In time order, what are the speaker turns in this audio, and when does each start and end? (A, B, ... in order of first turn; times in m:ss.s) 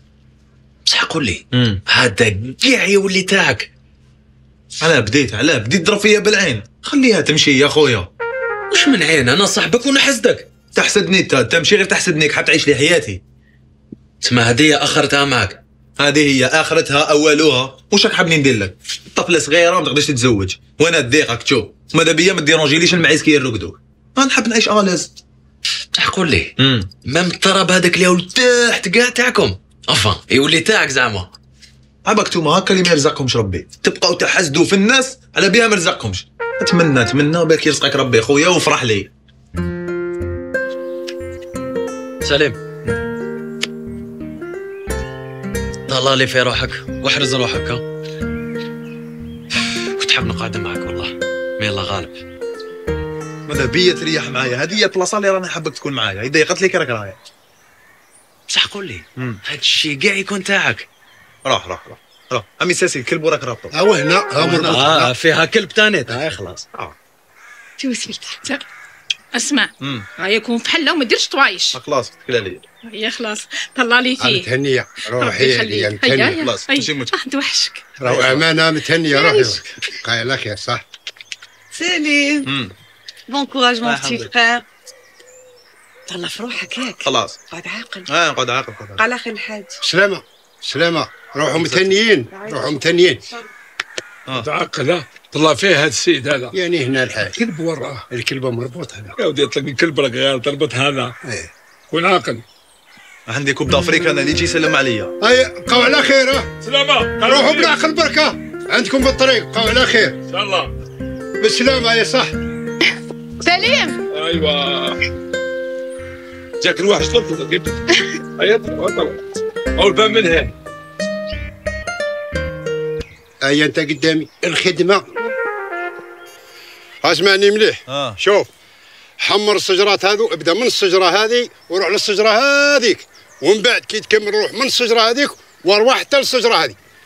0:00.9-0:03.7 A
0:01.5-0:01.8 B
0:04.8-0:08.1 B
0:08.7-0:10.5 A
0:10.7-0:13.2 B
0:14.2-0:15.6 A
0:16.0-0:25.1 B
0:25.9-0:26.5 A
0:26.6-0:26.9 B
0:27.0-0:31.3 A
0:32.0-0:39.1 B
0:42.2-0:42.6 A
0:45.9-0:47.8 A
0:50.0-0:52.2 A
0:53.5-0:57.2 B
0:58.5-1:00.9 A
1:01.4-1:03.7 B
1:03.7-1:05.1 C
1:04.4-1:06.6 A
1:04.5-1:04.8 B
1:07.8-1:08.6 D
1:09.3-1:11.8 D
1:09.8-1:10.1 B
1:11.7-1:12.6 B
1:12.8-1:14.5 D
1:14.2-1:16.4 C
1:15.2-1:17.8 D
1:16.4-1:17.1 B
1:18.0-1:20.8 C
1:18.0-1:18.4 B
1:19.1-1:19.5 D
1:21.7-1:22.5 E
1:22.4-1:22.7 B
1:23.3-1:24.6 E
1:23.8-1:24.3 B
1:26.1-1:28.1 E
1:27.0-1:27.4 B
1:28.0-1:29.0 B
1:29.0-1:29.8 E
1:29.8-1:33.2 C
1:31.5-1:31.9 B
1:32.3-1:33.0 E
1:34.3-1:36.6 F
1:36.5-1:37.4 C
1:37.3-1:38.0 F
1:38.1-1:39.1 C
1:39.2-1:41.1 F
1:41.2-1:41.5 C
1:41.9-1:42.4 F
1:43.2-1:45.1 B
1:45.2-1:46.5 C
1:46.6-1:47.8 F
1:47.2-1:50.2 C
1:50.3-1:50.7 F
1:51.4-1:52.3 C
1:53.4-1:54.0 D
1:54.1-1:55.0 F
1:56.6-1:57.7 F
1:58.4-1:59.2 F
1:59.8-2:00.5 F
2:03.4-2:05.3 C
2:07.0-2:08.5 C
2:07.9-2:08.2 B
2:09.2-2:16.8 C